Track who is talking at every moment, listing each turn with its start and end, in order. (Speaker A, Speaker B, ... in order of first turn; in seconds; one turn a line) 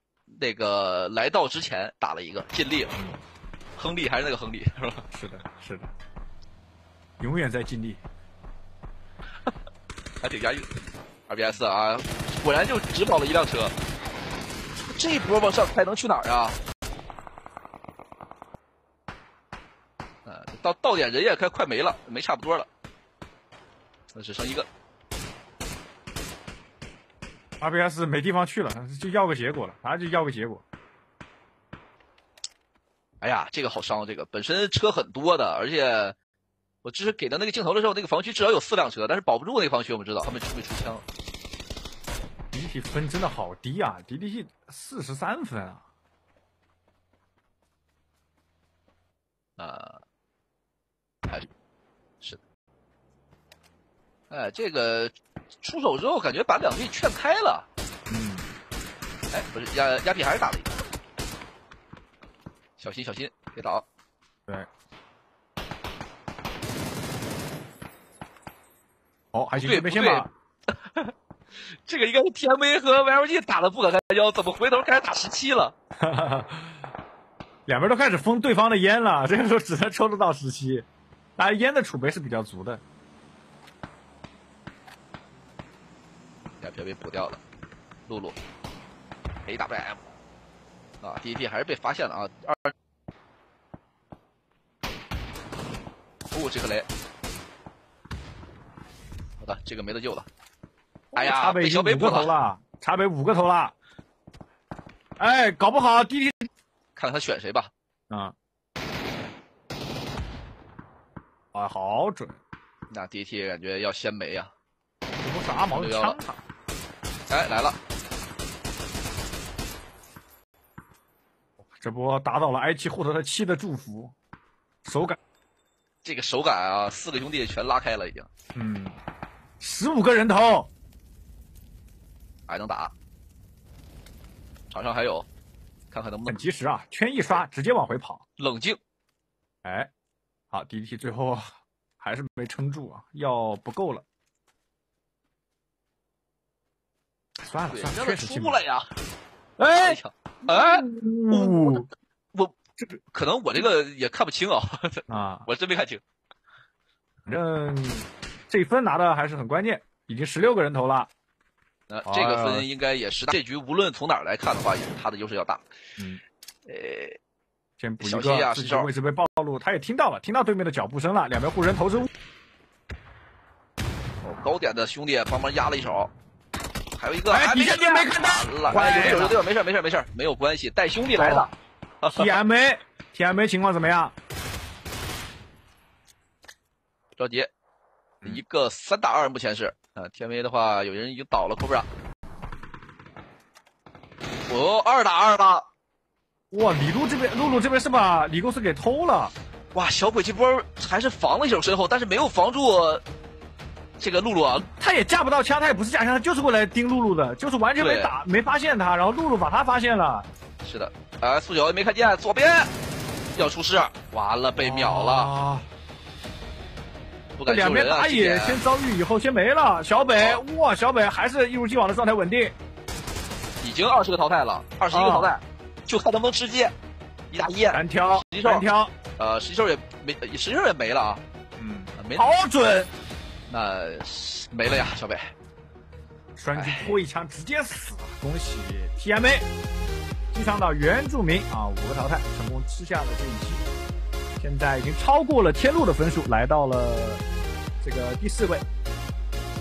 Speaker A: 0.3-2.9
Speaker A: 3.8-5.1
Speaker B: 5.1-5.9
Speaker B: 7.2-8.0
Speaker A: 10.2-10.7
Speaker A: 11.3-13.8
Speaker A: 14.8-16.6
Speaker A: 20.2-22.7
Speaker A: 24.1-24.7
Speaker B: 27.6-30.6
Speaker A: 33.2-36.1
Speaker A: 36.8-41.0
Speaker B: 42.5-45.8
Speaker A: 49.6-50.0
Speaker A: 54.3-57.7
Speaker B: 58.1-58.5
Speaker A: 59.3-60.8
Speaker A: 62.8-63.8
Speaker B: 69.3-70.3
Speaker A: 69.6-75.7
Speaker B: 76.0-76.8
Speaker B: 77.7-82.8
Speaker A: 86.6-87.4
Speaker A: 88.1-88.4
Speaker A: 89.5-90.1
Speaker A: 91.0-92.7
Speaker A: 96.3-96.9
Speaker A: 99.4-100.3
Speaker B: 101.1-103.7
Speaker A: 101.2-102.4
Speaker B: 105.2-106.5
Speaker A: 107.0-107.7
Speaker B: 111.5-112.4
Speaker A: 112.9-114.5
Speaker B: 115.2-116.4
Speaker A: 115.7-116.2
Speaker A: 117.3-117.8
Speaker B: 121.6-124.2
Speaker B: 124.8-125.2
Speaker A: 126.0-128.3
Speaker B: 128.6-129.0
Speaker B: 129.6-130.7
Speaker A: 132.5-132.9
Speaker A: 134.7-135.3
Speaker A: 135.9-136.4
Speaker B: 136.3-138.2
Speaker A: 138.4-138.8
Speaker B: 139.6-139.9
Speaker B: 140.5-141.4
Speaker B: 142.0-144.1
Speaker B: 147.4-148.6
Speaker A: 147.7-148.9
Speaker B: 149.6-151.9
Speaker A: 149.8-152.6
Speaker A: 153.1-156.0
Speaker B: 155.1-155.5
Speaker B: 157.3-161.1
Speaker A: 161.9-165.7
Speaker B: 162.1-162.7
Speaker A: 166.7-167.2
Speaker B: 167.8-172.1
Speaker A: 168.0-168.9
Speaker A: 174.2-176.1
Speaker A: 177.0-181.5
Speaker B: 177.3-179.4
Speaker B: 181.2-181.5
Speaker A: 182.0-182.4
Speaker B: 182.1-184.2
Speaker A: 187.2-187.5
Speaker A: 188.2-191.9
Speaker A: 194.5-195.7
Speaker B: 196.5-199.3
Speaker A: 199.7-203.0
Speaker A: 204.0-204.7
Speaker B: 204.8-210.3
Speaker A: 207.8-208.1
Speaker A: 210.6-212.7
Speaker A: 213.4-215.3
Speaker B: 214.6-215.7
Speaker A: 217.4-218.6
Speaker B: 217.4-222.6
Speaker A: 220.2-220.4
Speaker A: 223.6-226.7
Speaker B: 224.9-225.4
Speaker A: 227.3-228.7
Speaker B: 227.7-228.9
Speaker A: 229.2-231.2
Speaker B: 231.6-232.9
Speaker A: 231.9-232.3
Speaker A: 233.5-235.3
Speaker B: 236.4-239.5
Speaker A: 236.6-237.0
Speaker B: 240.3-243.6
Speaker B: 244.4-247.2
Speaker B: 247.8-248.6